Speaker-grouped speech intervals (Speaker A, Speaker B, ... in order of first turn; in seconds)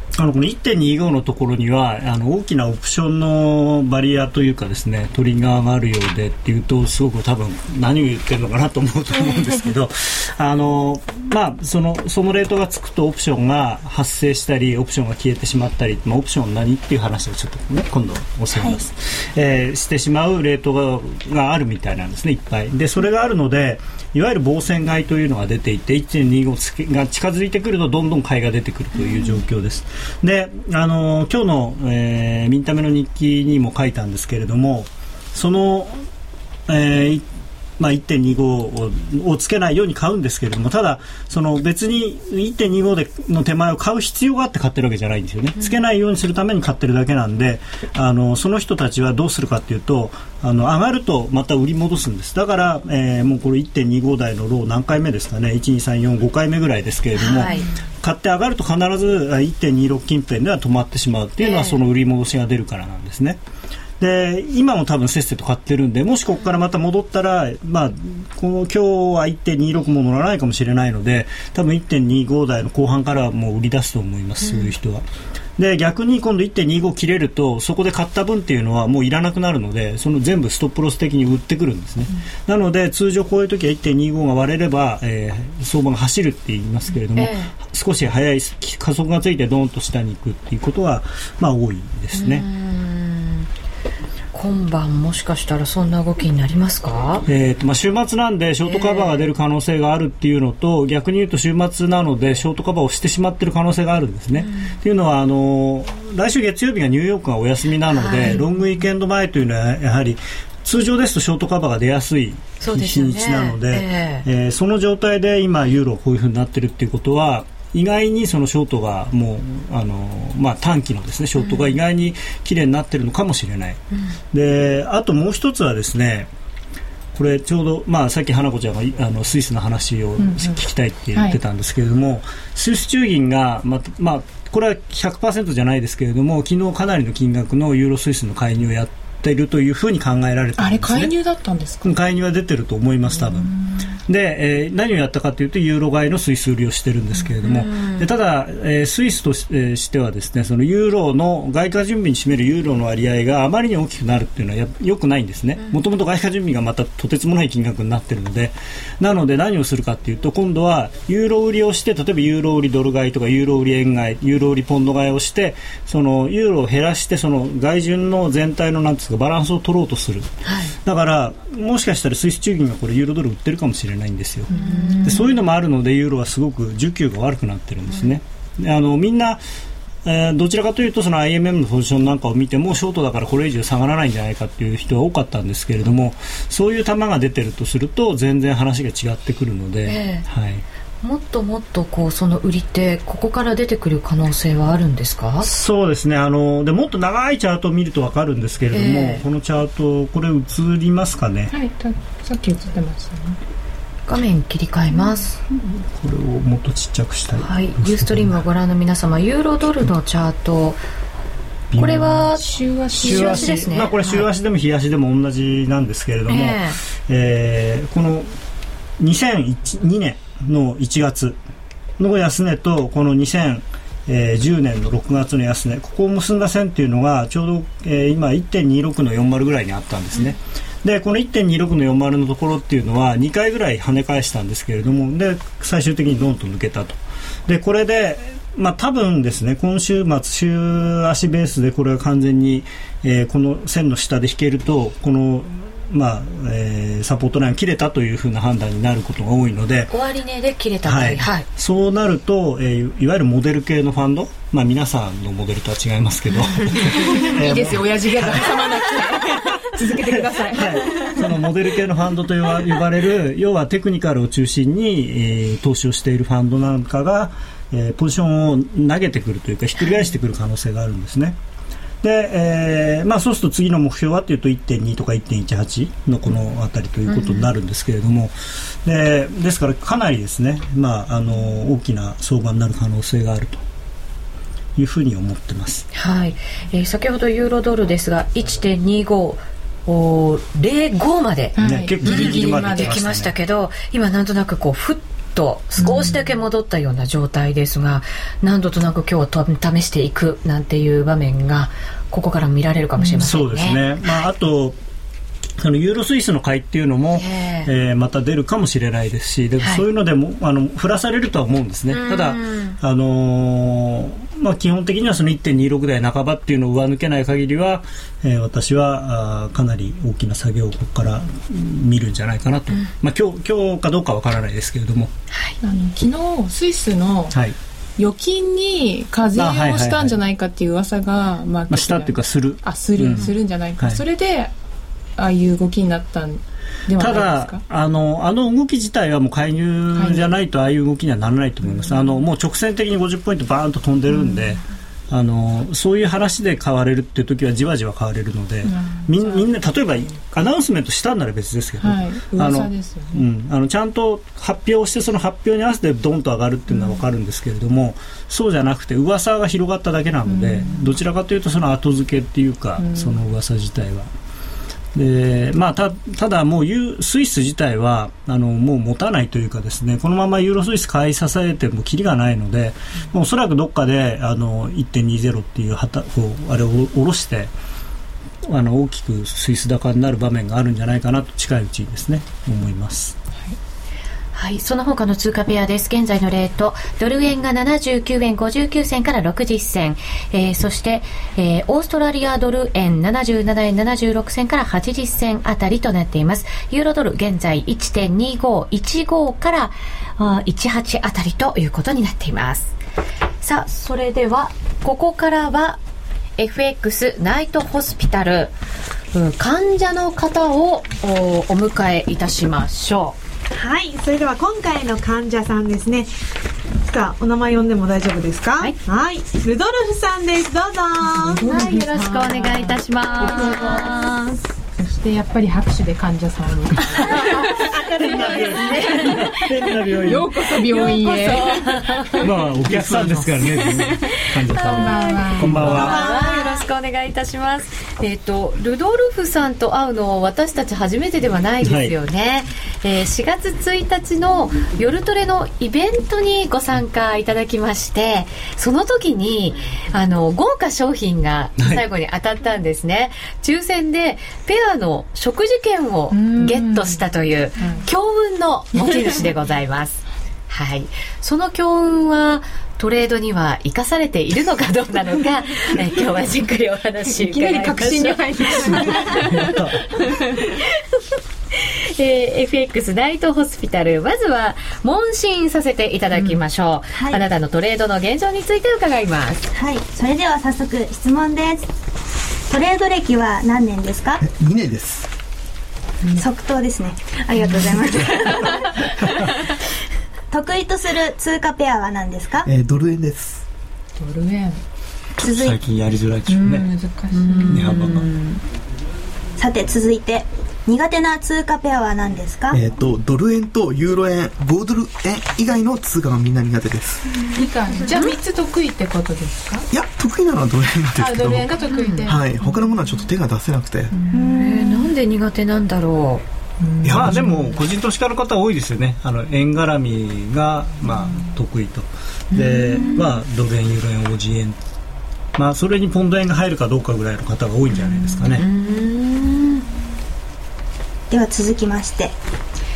Speaker A: 0.2-36.0, 36.7-37.2, 37.8-63.4, 64.0-75.0, 75.6-92.5, 97.3-123.8, 124.3-126.3, 127.1-141.2, 141.8-143.5, 144.1-170.3, 170.8-174.5, 175.0-179.4, 180.1-190.6, 195.4-201.6, 205.6-208.4, 211.7-212.4, 212.9-218.3, 219.0-221.4, 222.0-249.9, 250.8-271.4, 272.0-278.3, 278.9-283.6, 284.8-285.9, 291.6-293.3, 295.8-296.1, 303.2-304.8, 305.6-325.1, 329.4-330.2, 331.7-334.0, 337.0-364.1, 364.9-377.5, 378.5-383.2, 428.0-431.0, 432.2-436.0, 441.6-441.9, 451.6-451.8, 469.2-469.8, 495.2-496.7, 497.5-498.1, 516.9-524.6, 525.4-528.5
Speaker B: 18.5-18.8, 436.0-436.6, 476.9-477.2, 479.5-481.7, 482.5-484.2, 486.2-488.7, 490.3-492.5, 495.2-495.6, 499.4-502.6, 514.4-514.9, 531.1-532.1
Speaker C: 57.2-57.6, 61.4-61.8, 74.4-74.7, 87.2-87.5, 92.1-93.5, 94.3-97.3, 98.7-99.2, 104.4-104.7, 107.9-108.5, 112.6-114.3, 121.4-121.8, 123.9-124.2, 147.4-148.1, 170.4-170.8, 174.5-175.3, 189.9-190.3, 191.0-195.5, 198.7-199.2, 204.1-205.4, 207.4-210.8, 211.8-214.2, 216.3-216.8, 249.9-251.5, 277.1-277.5, 285.9-303.8, 307.1-307.7, 311.9-312.8, 325.3-325.6, 384.4-402.7, 403.4-405.8, 406.4-408.5, 409.1-413.2, 421.5-424.2, 428.6-429.2, 430.8-432.2, 434.5-469.3, 471.5-479.5, 497.1-498.4, 507.9-508.1, 511.7-512.1, 514.1-516.2, 522.3-523.0, 528.4-529.6
Speaker D: 57.4-57.7, 130.2-130.6, 140.6-141.9, 143.1-143.9, 174.5-175.2, 201.5-203.4, 212.3-213.6, 256.7-261.3, 291.6-293.0, 325.6-327.4, 328.0-334.5, 335.2-337.6, 339.9-340.3, 341.6-342.2, 344.1-344.6, 348.6-350.1, 351.8-353.2, 356.7-357.0, 360.3-360.9, 362.8-363.2, 421.2-423.9, 424.8-427.7, 430.0-431.8, 434.6-435.9, 456.1-457.0, 457.6-457.9, 467.1-469.6, 494.0-494.6, 496.3-497.8, 507.3-509.7, 511.0-512.5, 513.9-514.4, 516.6-517.5
Speaker E: 413.5-416.1, 416.8-421.5, 427.1-429.2, 435.8-436.4
Speaker F: 432.7-433.5, 484.2-485.1, 492.4-493.4, 502.5-507.1, 509.7-513.9, 516.8-517.2